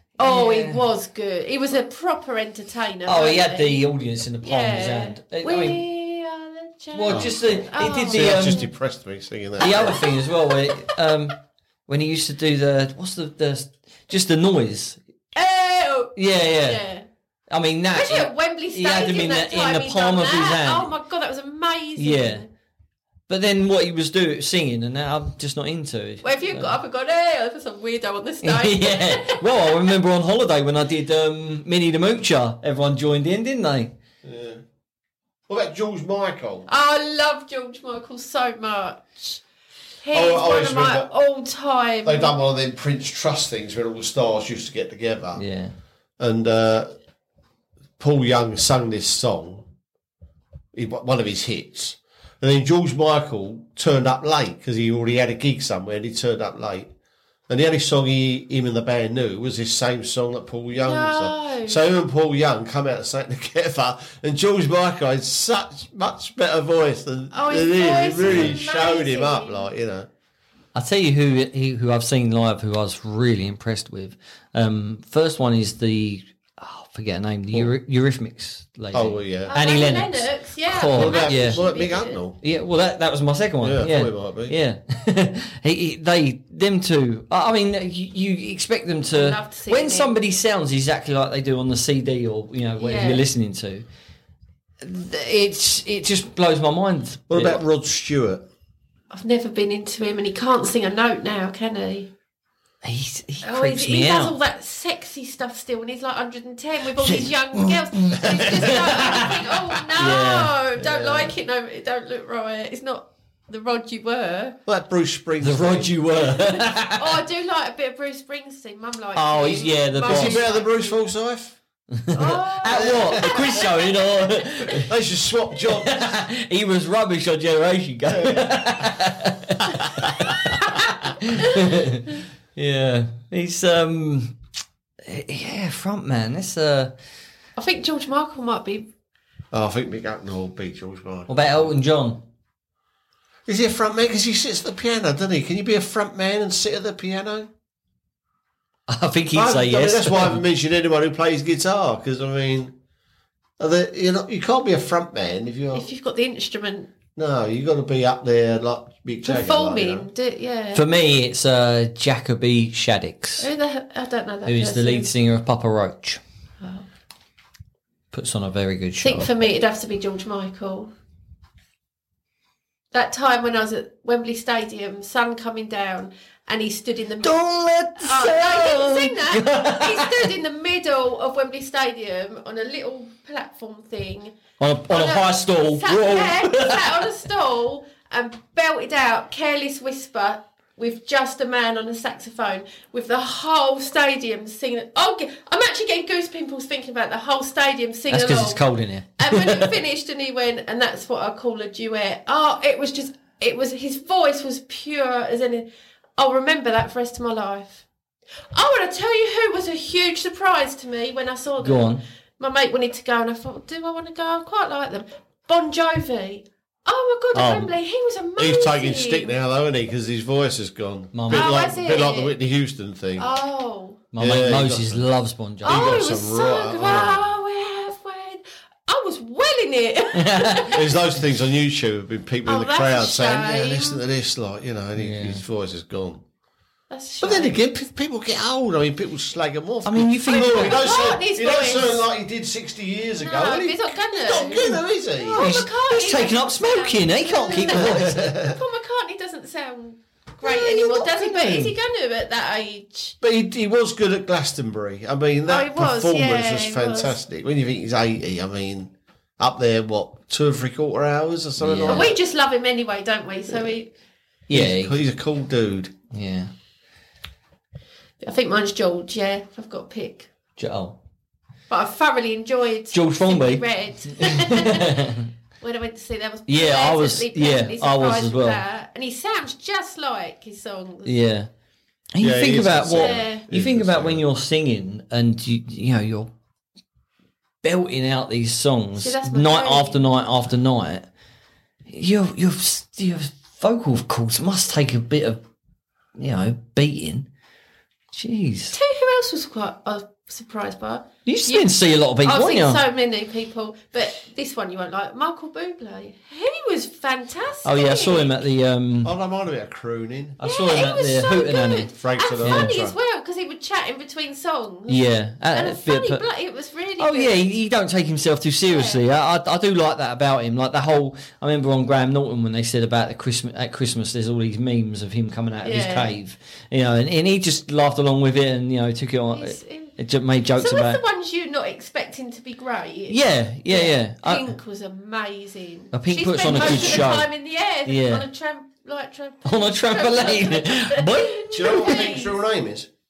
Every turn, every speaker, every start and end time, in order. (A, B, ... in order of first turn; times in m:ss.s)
0:00.2-0:03.8 A
0:00.2-0:00.8 B
0:03.1-0:05.8 B
0:04.4-0:08.7 A
0:06.9-0:08.7 B
0:07.1-0:07.4 C
0:08.1-0:10.1 C
0:09.6-0:11.4 B
0:09.7-0:10.6 A
0:11.9-0:15.0 B
0:15.4-0:17.1 A
0:16.2-0:16.8 B
0:17.5-0:20.9 B
0:17.9-0:22.5 A
0:22.0-0:22.4 B
0:23.3-0:26.8 B
0:26.2-0:29.9 A
0:28.4-0:33.9 B
0:34.2-0:34.6 C
0:35.5-0:36.7 C
0:36.7-0:39.4 A
0:40.0-0:42.4 A
0:40.1-0:41.1 C
0:42.0-0:45.4 C
0:45.4-0:45.7 B
0:46.2-0:46.9 C
0:48.0-0:49.7 C
0:50.7-0:56.9 C
0:57.5-1:10.1 C
1:00.8-1:01.8 A
1:07.3-1:09.7 A
1:08.2-1:08.6 B
1:10.7-1:21.6 B
1:18.9-1:19.5 C
1:19.5-1:22.2 A
1:20.9-1:22.4 C
1:22.4-1:33.8 B
1:23.6-1:24.6 C
1:29.1-1:30.1 A
1:32.8-1:33.2 A
1:34.8-1:37.6 B
1:37.3-1:38.4 C
1:39.1-1:42.1 A
1:42.8-1:44.4 B
1:43.4-1:54.6 A
1:47.0-1:50.6 B
1:48.3-1:49.3 C
1:50.8-1:51.3 C
1:54.7-1:56.0 C
1:55.4-1:57.2 B
1:56.3-2:01.0 A
1:59.2-2:00.5 B
2:00.1-2:01.6 C
2:02.0-2:04.9 B
2:02.1-2:04.0 A
2:02.7-2:03.7 C
2:04.6-2:06.1 C
2:05.8-2:14.4 B
2:08.1-2:08.9 C
2:10.0-2:10.3 C
2:15.0-2:16.9 B
2:17.6-2:18.9 A
2:19.5-2:21.7 C
2:21.3-2:22.2 B
2:23.5-2:27.5 C
2:28.9-2:30.4 B
2:29.3-2:32.7 C
2:33.6-2:35.9 C
2:35.7-2:36.9 A
2:37.2-2:40.1 C
2:39.2-2:40.8 A
2:40.7-2:43.5 B
2:43.4-2:45.1 A
2:44.5-2:46.2 B
2:46.6-2:46.9 A
2:48.1-2:49.3 B
2:49.0-2:50.9 A
2:52.9-2:57.4 A
2:57.2-3:00.3 B
2:58.0-3:04.4 A
3:04.6-3:07.1 B
3:04.9-3:18.6 A
3:18.1-3:19.7 B
3:19.2-3:27.8 A
3:28.5-3:39.3 A
3:31.6-3:32.0 B
3:37.3-3:37.7 B
3:38.4-3:43.3 C
3:41.1-3:41.5 B
3:41.3-3:42.4 A
3:43.2-3:44.0 A
3:44.1-3:46.0 B
3:44.2-3:45.1 C
3:45.6-3:47.3 C
3:45.6-3:51.0 A
3:50.2-3:50.7 B
3:50.7-3:56.2 C
3:52.5-3:54.0 A
3:55.0-3:55.4 B
3:56.9-3:57.6 A
3:57.2-4:05.6 C
3:59.8-4:00.9 B
4:00.3-4:02.1 A
4:03.2-4:13.2 A
4:05.3-4:08.4 B
4:07.6-4:08.6 C
4:10.4-4:11.7 B
4:11.3-4:11.6 C
4:13.2-4:22.2 C
4:15.5-4:17.2 A
4:21.6-4:22.1 B
4:21.9-4:23.9 A
4:24.5-4:25.0 B
4:24.5-4:25.9 C
4:26.1-4:26.5 B
4:28.2-4:30.3 A
4:30.6-4:31.0 B
4:31.7-4:35.0 A
4:32.9-4:35.3 B
4:35.6-4:41.2 A
4:36.5-4:38.6 B
4:41.0-4:41.5 B
4:42.1-4:46.3 B
4:42.2-4:44.2 C
4:43.0-4:43.4 A
4:47.6-4:51.1 B
4:49.0-4:50.1 A
4:51.9-4:55.4 B
4:56.2-4:57.3 B
4:58.1-4:58.8 B
4:58.7-5:08.4 A
5:01.3-5:02.8 B
5:07.6-5:09.1 B
5:09.0-5:10.4 C
5:10.4-5:11.9 B
5:10.4-5:17.5 A
5:12.0-5:13.0 C
5:12.4-5:12.7 B
5:14.9-5:16.2 B
5:17.0-5:31.0 B
5:18.7-5:19.0 A
5:25.6-5:26.2 A
5:29.3-5:30.0 A
5:30.6-5:42.4 A
5:33.1-5:34.6 B
5:35.9-5:37.3 B
5:36.5-5:37.1 C
5:37.8-5:38.2 B
5:39.4-5:42.1 B
5:41.5-5:42.9 C